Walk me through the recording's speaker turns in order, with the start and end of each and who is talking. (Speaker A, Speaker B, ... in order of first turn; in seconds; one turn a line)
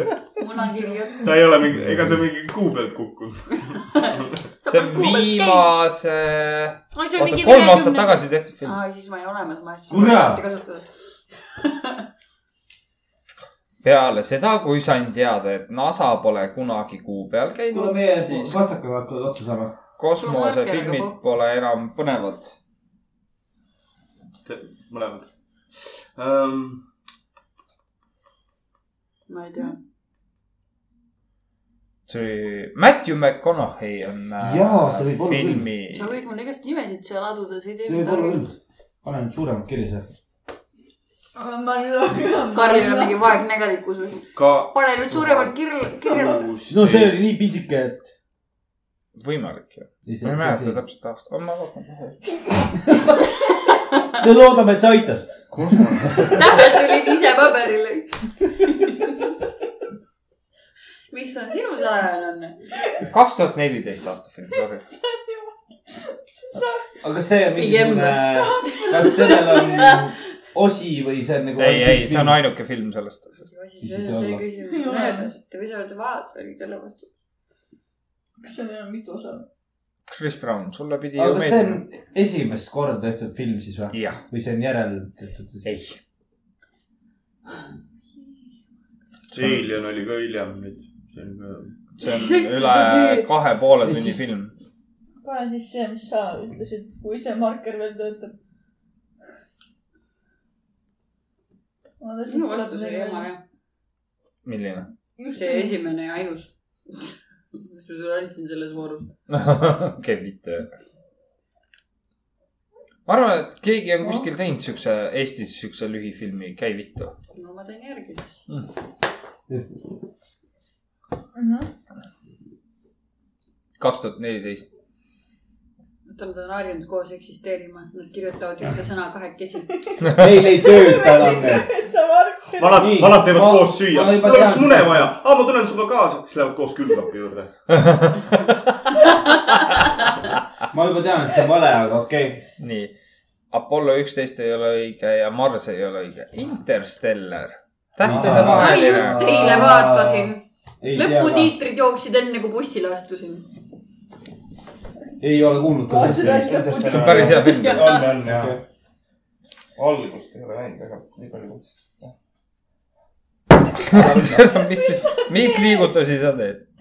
Speaker A: 0.4-1.3
Speaker B: 1.2-3.6
Speaker A: 3.9-5.7
Speaker C: 4.7-8.8
Speaker A: 6.9-10.9
Speaker D: 9.9-10.4
Speaker A: 11.6-12.0
Speaker C: 13.8-18.6
Speaker D: 17.7-19.7
Speaker C: 20.0-22.5
Speaker A: 20.2-21.1
Speaker B: 24.4-26.8
Speaker A: 29.3-29.8
Speaker C: 32.1-36.2
Speaker D: 34.4-35.7
Speaker A: 35.9-38.5
Speaker D: 37.8-40.1
Speaker E: 41.4-43.4
Speaker A: 42.5-46.5
Speaker B: 44.3-45.5
Speaker B: 46.0-47.3
Speaker D: 46.7-48.1
Speaker C: 49.1-52.2
Speaker D: 50.0-50.8
Speaker D: 54.2-55.4
Speaker B: 55.5-56.2
Speaker A: 56.3-59.2
Speaker A: 61.1-62.6
Speaker C: 63.1-64.8
Speaker E: 65.0-65.5
Speaker E: 66.4-66.8
Speaker D: 67.0-72.4
Speaker A: 67.5-70.1
Speaker E: 68.5-69.6
Speaker C: 71.6-73.4
Speaker A: 73.4-77.1
Speaker D: 73.8-74.4
Speaker E: 74.6-75.3
Speaker E: 78.4-79.5
Speaker C: 80.1-81.8
Speaker D: 81.2-85.8
Speaker C: 83.9-84.2
Speaker C: 85.6-86.0
Speaker C: 89.3-89.6
Speaker B: 89.3-91.7
Speaker C: 92.0-94.5
Speaker A: 92.0-93.3
Speaker D: 93.8-94.2
Speaker E: 95.2-98.3
Speaker E: 102.0-103.3
Speaker A: 102.3-103.4
Speaker C: 104.4-104.9
Speaker E: 105.2-105.7
Speaker A: 105.3-109.1
Speaker C: 109.3-110.7
Speaker C: 113.0-117.1
Speaker E: 114.0-114.3
Speaker A: 117.3-118.4
Speaker E: 121.3-121.7
Speaker C: 123.8-124.7
Speaker A: 126.1-129.7
Speaker E: 129.9-133.0
Speaker D: 130.1-131.7
Speaker B: 132.6-137.5
Speaker D: 132.7-135.1
Speaker C: 137.7-138.5
Speaker A: 139.1-139.9
Speaker D: 140.7-142.4
Speaker C: 142.6-142.9
Speaker C: 143.5-149.2
Speaker D: 148.0-151.5
Speaker A: 148.2-153.4
Speaker D: 155.2-157.4
Speaker E: 155.8-157.5
Speaker B: 156.2-158.6
Speaker C: 156.9-158.0
Speaker A: 157.4-158.1
Speaker D: 158.2-158.6
Speaker B: 159.8-161.7
Speaker C: 163.8-166.6